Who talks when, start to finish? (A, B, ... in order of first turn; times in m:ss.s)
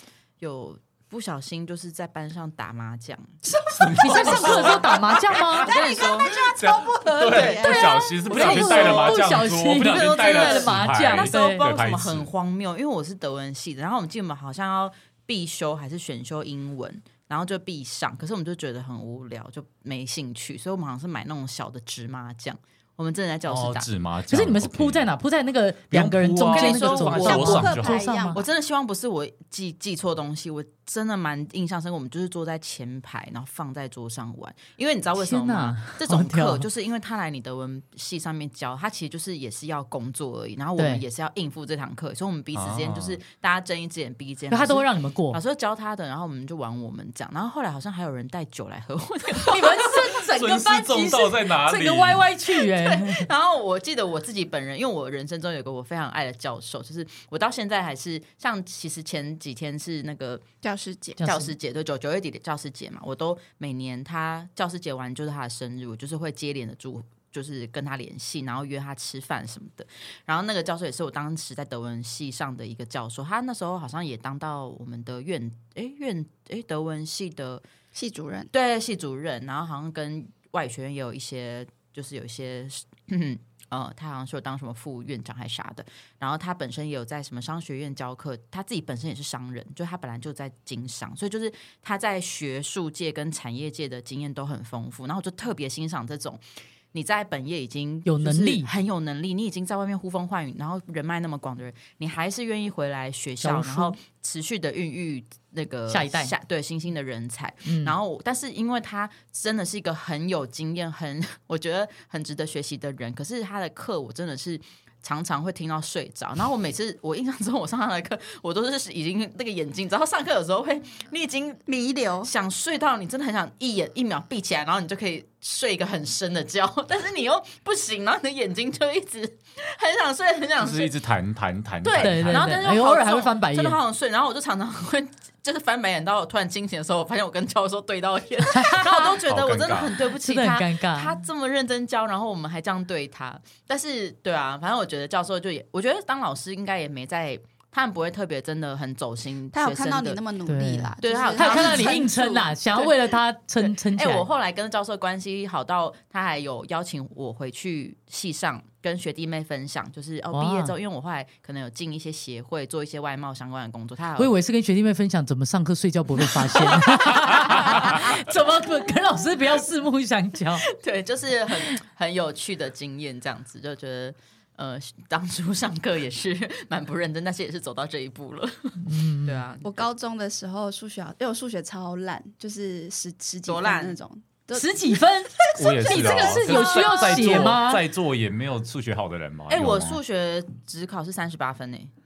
0:00.4-0:03.4 A
0:03.5-0:04.8 B
0:03.7-0:12.3 C
0:04.0-0:05.6 D
0:04.0-0:06.4 A
0:05.5-0:09.0 B
0:07.2-0:23.9 A
0:08.3-0:11.6 D
0:23.4-0:25.1 C
0:24.3-0:28.4 D
0:25.9-0:28.0 C
0:26.4-0:49.6 A
0:27.0-0:28.4 B
0:35.2-0:36.6 D
0:40.8-0:41.0 D
0:42.5-0:43.2 C
0:44.5-0:45.4 D
0:49.5-0:53.3 D
0:50.2-0:52.2 C
0:52.6-1:00.4 A
1:00.6-1:01.2 B
1:01.2-1:01.5 D
1:01.2-1:17.6 A
1:17.9-1:18.5 B
1:18.5-2:01.6 A
1:38.0-1:38.7 D
1:43.4-1:44.0 D
1:45.9-1:46.3 D
1:47.6-1:48.0 D
2:01.7-2:02.3 B
2:02.2-2:10.9 A
2:10.6-2:12.5 C
2:11.8-2:30.2 A
2:11.9-2:13.8 D
2:18.5-2:19.1 D
2:19.2-2:20.0 C
2:20.2-2:21.2 D
2:29.5-2:32.5 B
2:30.4-2:34.2 D
2:31.0-2:32.1 A
2:33.6-2:44.3 A
2:40.3-2:40.7 D
2:44.2-2:50.6 D
2:46.2-2:48.0 A
2:50.6-2:59.9 A
2:58.8-2:59.4 D
2:59.6-3:06.8 B
3:03.5-3:04.0 A
3:04.5-3:07.8 D
3:05.6-3:10.0 C
3:09.5-3:11.9 A